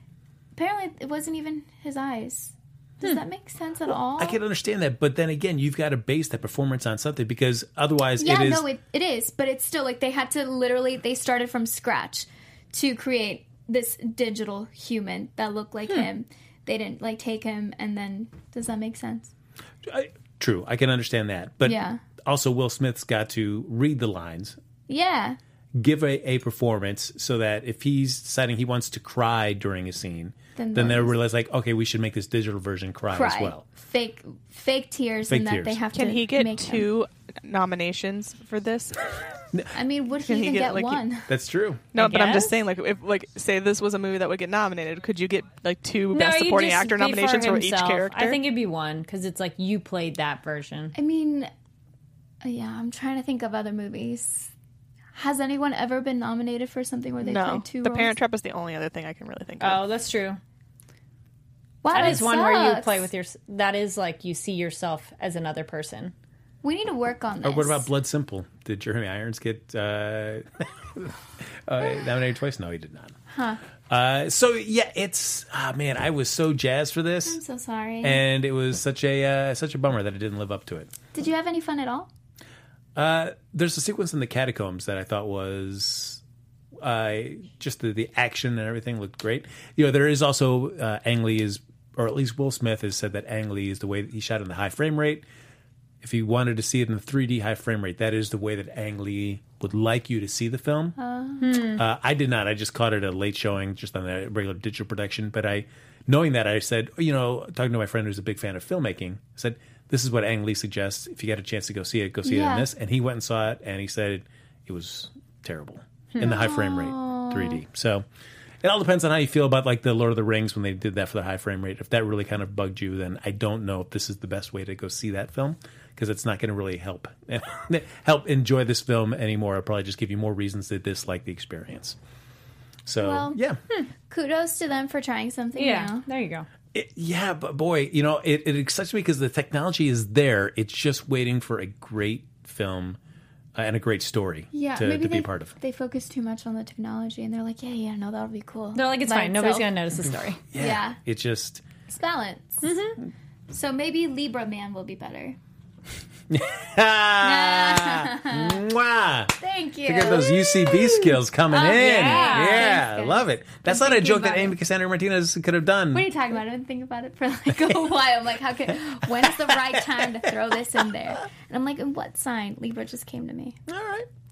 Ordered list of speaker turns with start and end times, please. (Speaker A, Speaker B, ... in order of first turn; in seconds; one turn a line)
Speaker A: 0.6-4.4
Speaker B: 4.2-8.7
Speaker A: 8.2-19.3
Speaker B: 19.9-24.6
Speaker A: 21.6-22.0
Speaker A: 24.9-25.4
Speaker B: 25.8-33.6
Speaker A: 30.6-31.1
Speaker A: 33.1-36.9
Speaker B: 35.3-35.8
Speaker C: 35.9-39.1
Speaker A: 39.7-41.3
Speaker C: 40.2-41.0
Speaker B: 41.3-41.8
Speaker C: 41.9-48.4
Speaker D: 42.0-42.6
Speaker D: 46.1-51.0
Speaker A: 51.0-51.5
Speaker A: 52.4-54.5
Speaker A: 55.1-58.1
Speaker C: 57.2-59.8
Speaker D: 59.6-60.4
Speaker A: 61.8-63.1
Speaker D: 61.9-66.1
Speaker A: 66.6-67.9
Speaker B: 67.4-73.2
Speaker A: 73.3-73.6
Speaker B: 73.9-77.4
Speaker A: 77.2-78.2
Speaker B: 78.0-80.9
Speaker A: 81.1-82.1
Speaker B: 83.0-86.2
Speaker B: 86.8-95.2
Speaker B: 96.0-101.0
Speaker A: 101.0-101.5
Speaker D: 101.4-101.8
Speaker B: 101.8-118.0
Speaker A: 112.2-112.7
Speaker A: 116.2-117.6
Speaker B: 118.6-132.0
Speaker B: 132.9-133.6
Speaker A: 133.0-133.4
Speaker A: 134.1-136.1
Speaker D: 135.6-136.5
Speaker B: 136.7-143.0
Speaker B: 143.6-145.6
Speaker A: 144.5-149.7
Speaker D: 148.8-150.4
Speaker B: 150.5-151.6
Speaker A: 150.6-151.0
Speaker A: 151.9-152.7
Speaker D: 152.6-153.0
Speaker A: 153.5-155.4
Speaker B: 156.3-159.3
Speaker A: 157.2-158.6
Speaker A: 159.4-164.6
Speaker B: 159.9-166.1
Speaker D: 161.7-162.8
Speaker A: 165.9-173.6
Speaker B: 173.7-174.1